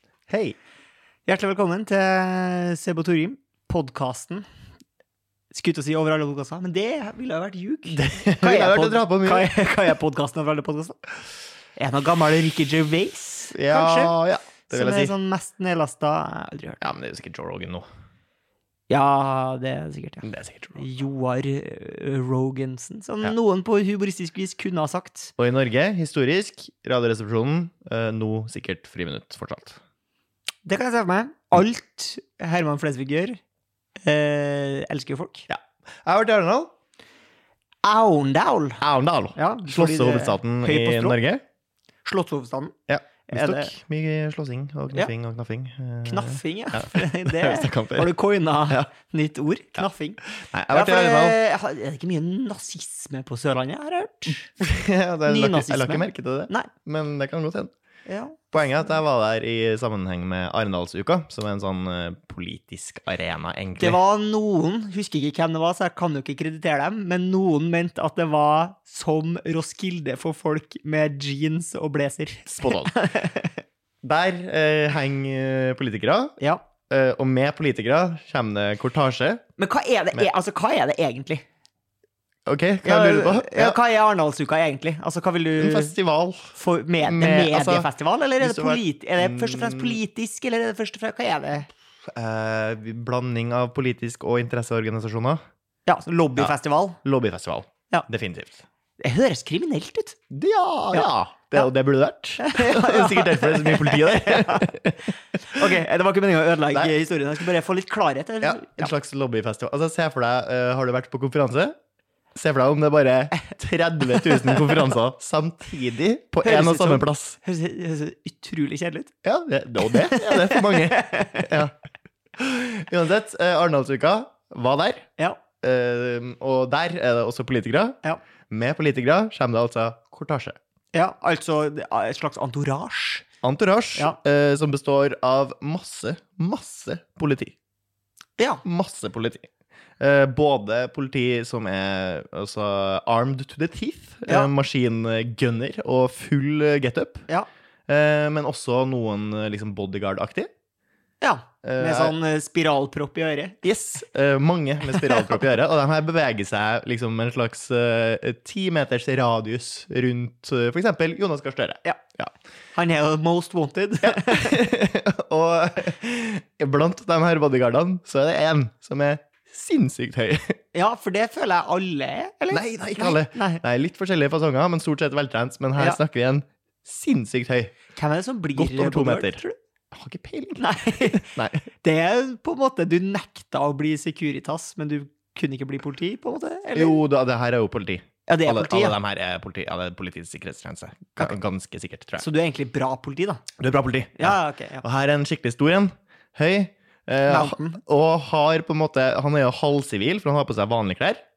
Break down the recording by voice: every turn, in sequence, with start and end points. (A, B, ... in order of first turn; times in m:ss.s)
0:00.3-0:00.6 A
0:01.3-0:04.4 B
0:05.5-0:11.0 B
0:07.9-0:09.5 A
0:11.8-0:14.2 B
0:13.5-0:15.1 A
0:14.7-0:16.8 B
0:16.8-0:17.9 A
0:18.9-0:20.2 B
0:20.2-0:20.9 A
0:20.8-0:25.3 B
0:25.4-0:29.8 A
0:30.6-0:33.4 B
0:34.0-0:35.5 B
0:35.5-0:36.7 A
0:37.8-0:38.8 B
0:38.8-0:41.4 A
0:39.4-0:41.2 B
0:42.0-0:42.7 B
0:42.9-0:48.1 A
0:43.3-0:43.8 B
0:46.0-0:50.2 B
0:48.7-0:48.9 A
0:49.8-0:51.4 A
0:50.7-0:54.5 B
0:54.6-0:57.7 A
0:55.3-0:56.7 B
0:58.1-0:59.0 B
0:58.5-1:04.0 A
1:03.8-1:13.6 B
1:12.5-1:13.0 A
1:14.0-1:19.4 A
1:16.4-1:16.7 B
1:19.6-1:21.4 B
1:22.5-1:23.8 A
1:22.8-1:26.0 B
1:25.6-1:30.0 A
1:26.6-1:31.7 B
1:32.1-1:35.4 A
1:35.9-1:37.0 B
1:36.4-1:38.6 A
1:39.0-1:40.2 B
1:40.3-1:45.0 A
1:40.9-1:41.7 B
1:42.4-1:44.7 B
1:45.4-1:48.9 B
1:46.7-1:47.0 A
1:48.4-1:51.8 A
1:52.3-1:57.4 A
1:54.1-1:54.7 B
1:56.4-1:59.1 B
1:59.2-2:01.8 A
1:59.8-2:01.6 B
2:02.4-2:08.0 A
2:05.2-2:05.5 B
2:08.5-2:10.6 A
2:10.9-2:13.3 B
2:13.4-2:17.6 A
2:18.4-2:18.6 B
2:18.6-2:19.5 A
2:20.0-2:27.3 A
2:24.3-2:24.5 B
2:27.9-2:30.5 A
2:31.2-2:33.6 B
2:31.6-2:32.2 A
2:33.6-2:42.3 A
2:34.8-2:35.6 B
2:42.8-2:44.6 B
2:44.0-2:50.6 A
2:50.7-2:53.6 B
2:52.5-2:57.9 A
2:57.9-2:59.6 B
2:58.6-3:01.7 A
3:00.6-3:01.3 B
3:01.8-3:07.0 B
3:06.7-3:12.3 A
3:08.3-3:09.0 B
3:12.2-3:13.5 B
3:13.5-3:21.2 A
3:14.2-3:14.8 B
3:17.3-3:17.8 B